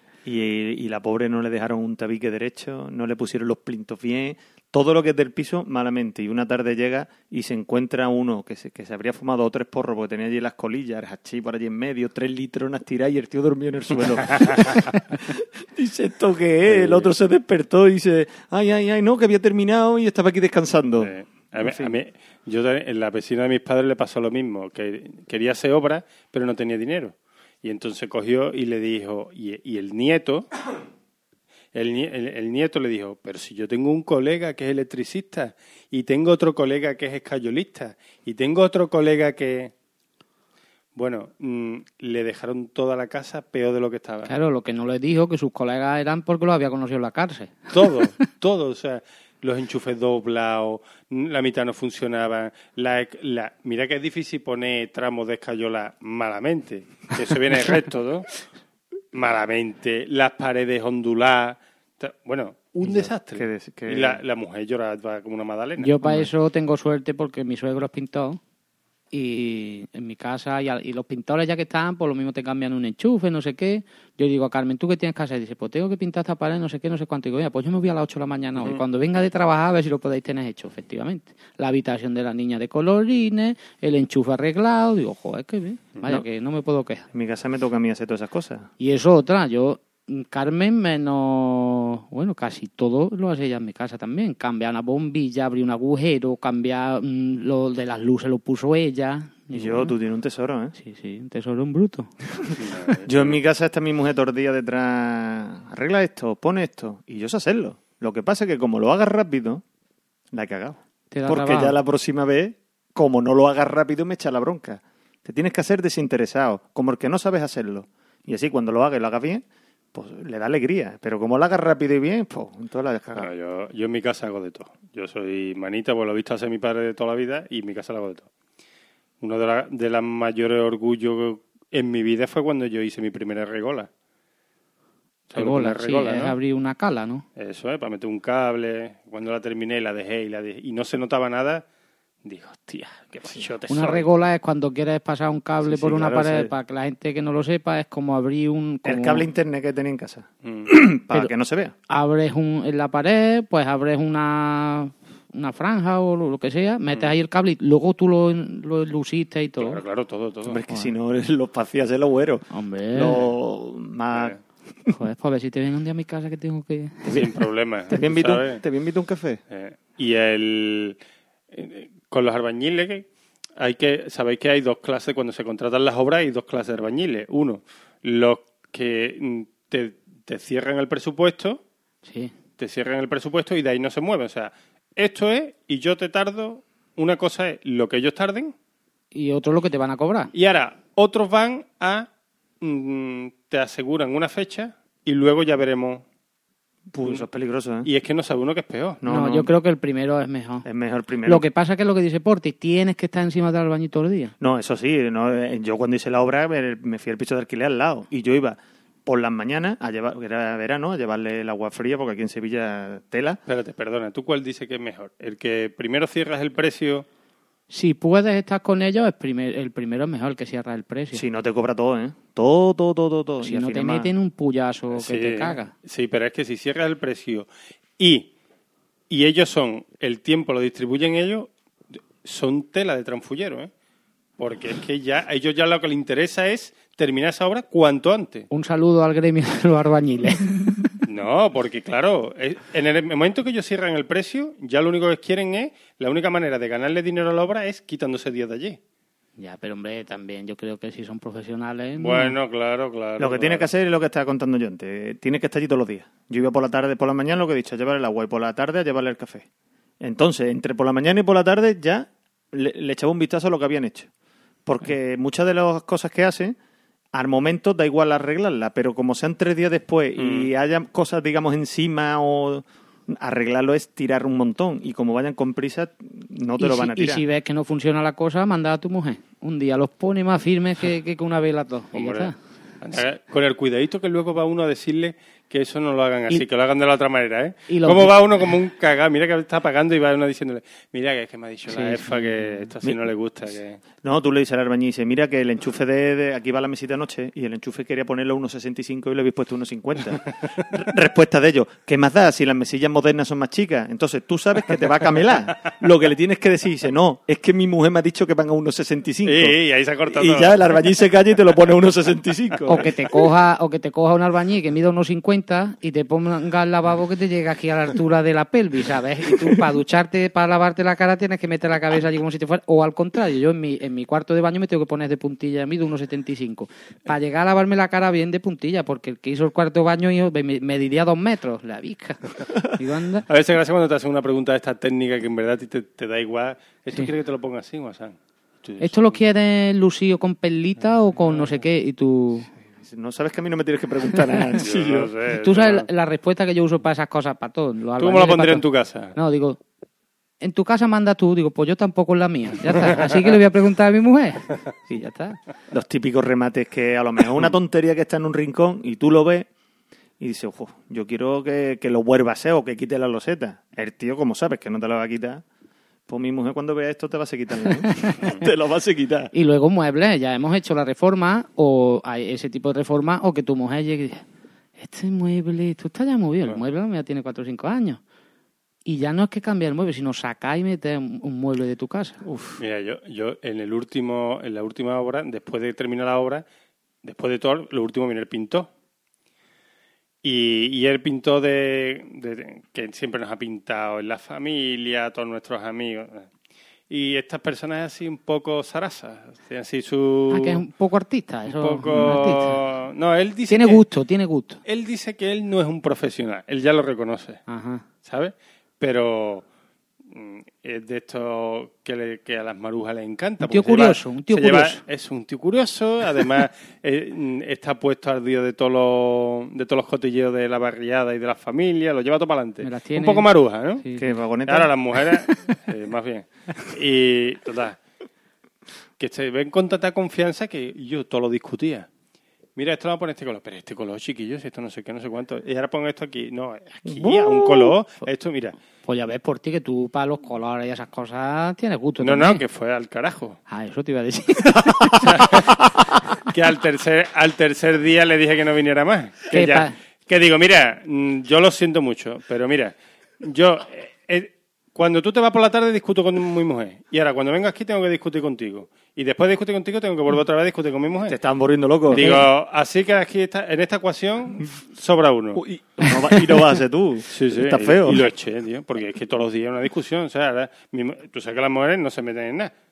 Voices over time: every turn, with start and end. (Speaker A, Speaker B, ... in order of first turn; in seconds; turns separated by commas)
Speaker A: 0.2-21.9, Speaker B: 16.7-17.1, Speaker B: 21.0-30.5, Speaker B: 31.7-39.7, Speaker B: 41.0-44.3, Speaker C: 44.3-47.7, Speaker B: 47.7-58.3, Speaker B: 59.1-66.3, Speaker A: 62.8-64.2, Speaker C: 65.8-68.4, Speaker C: 69.1-87.1, Speaker A: 87.1-88.7, Speaker C: 88.8-100.0, Speaker A: 99.5-100.7, Speaker C: 100.8-102.1, Speaker B: 102.6-103.4, Speaker A: 103.0-109.6, Speaker A: 110.3-123.3, Speaker C: 111.1-111.8, Speaker B: 123.2-128.3, Speaker B: 129.2-133.9, Speaker B: 135.3-136.4, Speaker C: 135.3-137.2, Speaker B: 137.4-141.6, Speaker B: 142.2-144.1, Speaker C: 143.7-149.3, Speaker B: 145.7-146.5, Speaker A: 148.8-151.7, Speaker B: 150.4-150.7, Speaker C: 151.9-159.8, Speaker B: 159.6-160.6, Speaker A: 160.4-164.4, Speaker C: 162.5-163.2, Speaker B: 164.1-164.4, Speaker C: 164.9-167.2, Speaker B: 167.1-168.6, Speaker A: 167.9-169.4, Speaker B: 169.5-171.0, Speaker B: 171.5-173.1, Speaker B: 173.6-181.6, Speaker C: 182.1-182.3, Speaker B: 182.6-188.5, Speaker C: 189.1-190.3, Speaker B: 190.3-192.1, Speaker B: 192.6-196.0, Speaker A: 196.9-197.9, Speaker B: 197.8-199.0, Speaker A: 199.0-199.5, Speaker C: 199.1-200.7, Speaker A: 200.6-201.4, Speaker C: 201.3-204.3, Speaker A: 204.4-213.4, Speaker B: 213.5-217.1, Speaker C: 217.7-221.2, Speaker A: 221.1-224.1, Speaker C: 223.4-225.7, Speaker B: 224.9-227.5, Speaker B: 228.0-228.3, Speaker B: 229.1-231.5, Speaker B: 232.2-233.7, Speaker B: 234.4-238.5, Speaker C: 238.5-240.9, Speaker B: 241.1-248.8, Speaker C: 249.4-252.3, Speaker B: 252.0-253.7, Speaker A: 253.2-259.5, Speaker A: 260.0-264.1, Speaker A: 264.7-266.6, Speaker A: 267.1-277.2, Speaker B: 270.2-270.5, Speaker C: 276.6-282.4, Speaker B: 281.9-293.8, Speaker C: 287.7-288.2, Speaker C: 291.7-292.7, Speaker A: 294.0-312.9, Speaker B: 309.2-310.7, Speaker C: 312.7-333.3, Speaker B: 333.3-339.1, Speaker C: 338.8-342.5, Speaker A: 342.7-345.1, Speaker B: 344.6-345.9, Speaker C: 345.4-348.6, Speaker B: 348.0-349.1, Speaker C: 349.1-349.6, Speaker C: 350.4-355.4, Speaker A: 355.7-359.5, Speaker A: 360.2-365.4, Speaker A: 366.1-369.3, Speaker C: 369.3-374.2, Speaker C: 374.8-378.0, Speaker C: 378.9-382.2, Speaker A: 382.2-382.6, Speaker B: 382.6-386.4, Speaker B: 387.0-388.7, Speaker B: 390.2-396.3, Speaker B: 396.9-400.6, Speaker C: 400.3-402.6, Speaker B: 401.5-403.8, Speaker C: 403.5-404.6, Speaker B: 404.6-407.4, Speaker C: 407.5-407.8, Speaker B: 408.0-409.4, Speaker B: 410.1-423.8, Speaker C: 413.4-414.8, Speaker C: 422.6-423.3, Speaker C: 423.8-424.1, Speaker A: 424.0-424.7, Speaker B: 424.5-427.8, Speaker B: 429.0-431.9, Speaker B: 432.6-438.6, Speaker A: 436.9-437.7, Speaker C: 438.9-442.4, Speaker B: 442.0-443.4, Speaker C: 443.5-445.1, Speaker B: 445.0-445.6, Speaker B: 446.2-461.2, Speaker C: 449.3-449.7, Speaker A: 461.1-462.2, Speaker B: 461.9-465.4, Speaker C: 462.0-462.2, Speaker A: 465.4-468.1, Speaker B: 467.1-472.5